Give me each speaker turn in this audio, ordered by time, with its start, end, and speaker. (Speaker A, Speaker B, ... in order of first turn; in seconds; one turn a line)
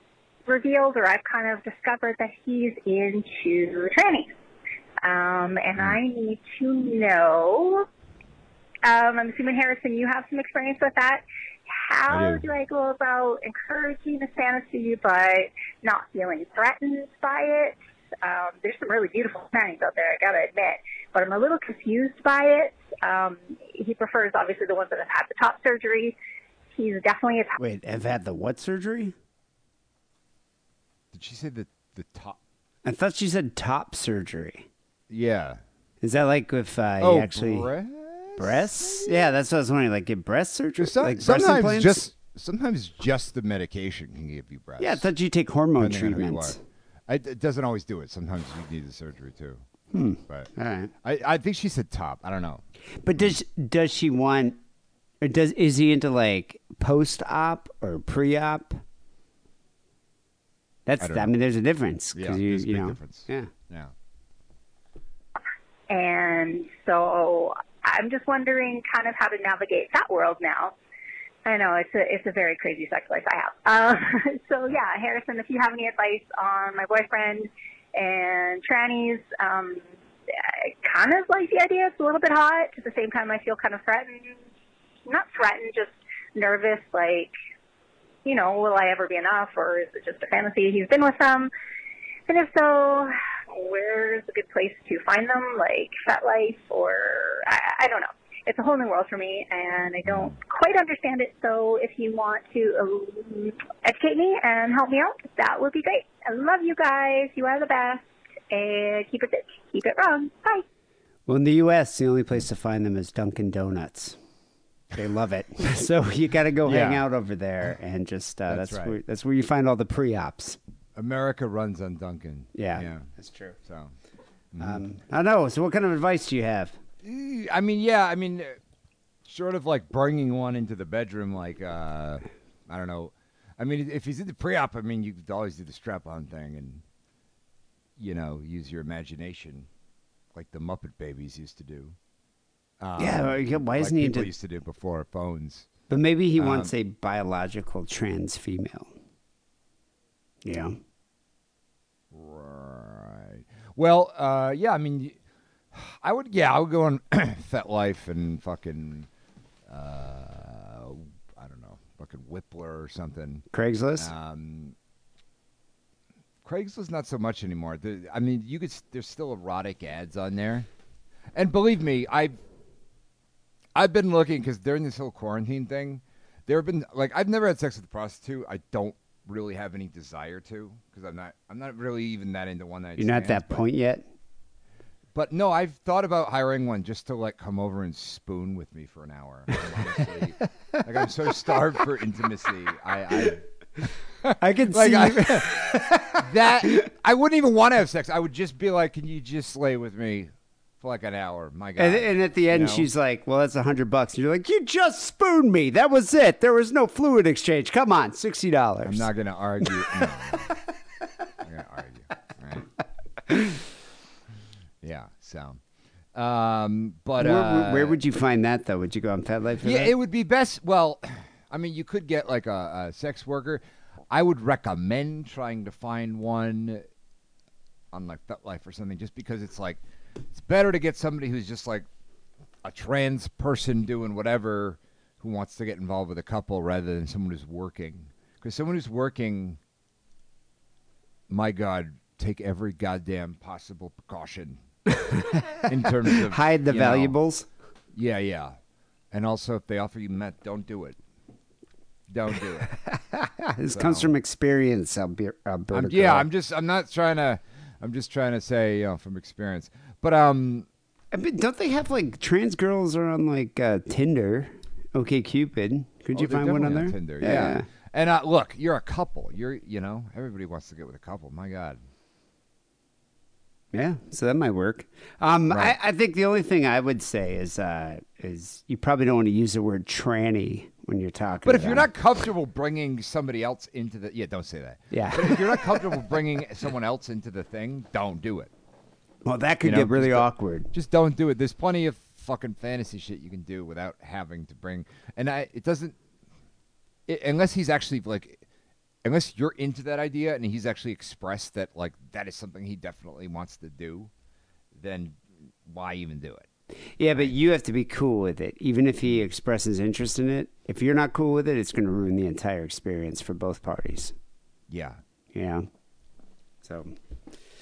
Speaker A: 0.5-4.3
Speaker A: 5.0-7.8
Speaker A: 8.8-11.2
Speaker A: 11.7-26.1
Speaker B: 12.1-12.4
Speaker A: 26.7-27.6
Speaker C: 27.6-29.1
Speaker B: 31.1-32.4
Speaker C: 32.8-34.7
Speaker B: 35.1-35.6
Speaker C: 36.0-37.7
Speaker B: 37.0-39.1
Speaker C: 38.4-42.1
Speaker B: 40.8-45.0
Speaker C: 44.8-46.6
Speaker B: 45.8-46.5
Speaker B: 47.1-49.6
Speaker C: 49.9-50.9
Speaker B: 50.2-50.5
Speaker B: 51.0-52.6
Speaker C: 53.0-54.6
Speaker C: 55.2-58.8
Speaker C: 60.9-63.5
Speaker B: 61.0-61.3
Speaker B: 62.1-63.9
Speaker A: 65.9-70.7
Speaker A: 71.5-79.8
Speaker A: 80.8-84.3
Speaker A: 85.0-87.3
Speaker A: 88.2-91.5
Speaker A: 92.3-110.6
Speaker B: 100.0-100.3
Speaker C: 111.3-114.2
Speaker C: 114.9-120.6
Speaker B: 116.6-117.0
Speaker B: 118.5-119.0
Speaker B: 120.9-123.1
Speaker C: 122.5-123.6
Speaker B: 123.6-123.9
Speaker B: 124.5-124.8
Speaker C: 124.6-126.8
Speaker B: 127.0-128.6
Speaker B: 129.2-136.8
Speaker B: 138.0-139.7
Speaker B: 140.3-141.9
Speaker B: 142.8-145.7
Speaker C: 143.0-144.3
Speaker C: 145.9-148.9
Speaker B: 146.3-146.7
Speaker C: 150.4-150.8
Speaker B: 152.1-155.2
Speaker B: 155.7-159.1
Speaker B: 159.7-163.4
Speaker C: 163.5-164.1
Speaker B: 164.0-164.7
Speaker B: 166.4-170.7
Speaker B: 171.3-172.4
Speaker B: 173.7-183.7
Speaker C: 183.0-184.0
Speaker B: 185.1-193.4
Speaker B: 194.2-202.9
Speaker C: 194.4-196.8
Speaker C: 201.8-209.1
Speaker B: 208.8-210.5
Speaker C: 209.6-210.1
Speaker B: 211.4-212.7
Speaker C: 213.3-213.6
Speaker B: 214.8-215.6
Speaker B: 216.1-218.0
Speaker C: 217.2-219.9
Speaker B: 219.6-226.8
Speaker B: 227.9-229.8
Speaker B: 230.3-231.9
Speaker B: 232.6-239.6
Speaker B: 241.3-244.6
Speaker C: 244.9-247.5
Speaker B: 245.7-247.2
Speaker B: 247.9-248.6
Speaker B: 249.1-251.0
Speaker B: 252.1-252.7
Speaker C: 252.9-256.3
Speaker B: 253.7-254.1
Speaker B: 255.7-260.7
Speaker C: 261.1-267.6
Speaker B: 266.1-271.8
Speaker C: 273.7-281.9
Speaker B: 275.5-275.7
Speaker B: 281.4-288.5
Speaker C: 284.9-285.9
Speaker C: 289.2-290.7
Speaker B: 289.6-295.9
Speaker B: 297.1-298.4
Speaker B: 299.0-304.1
Speaker B: 304.7-306.5
Speaker C: 307.0-314.1
Speaker B: 314.7-315.0
Speaker C: 315.3-315.7
Speaker C: 316.6-316.9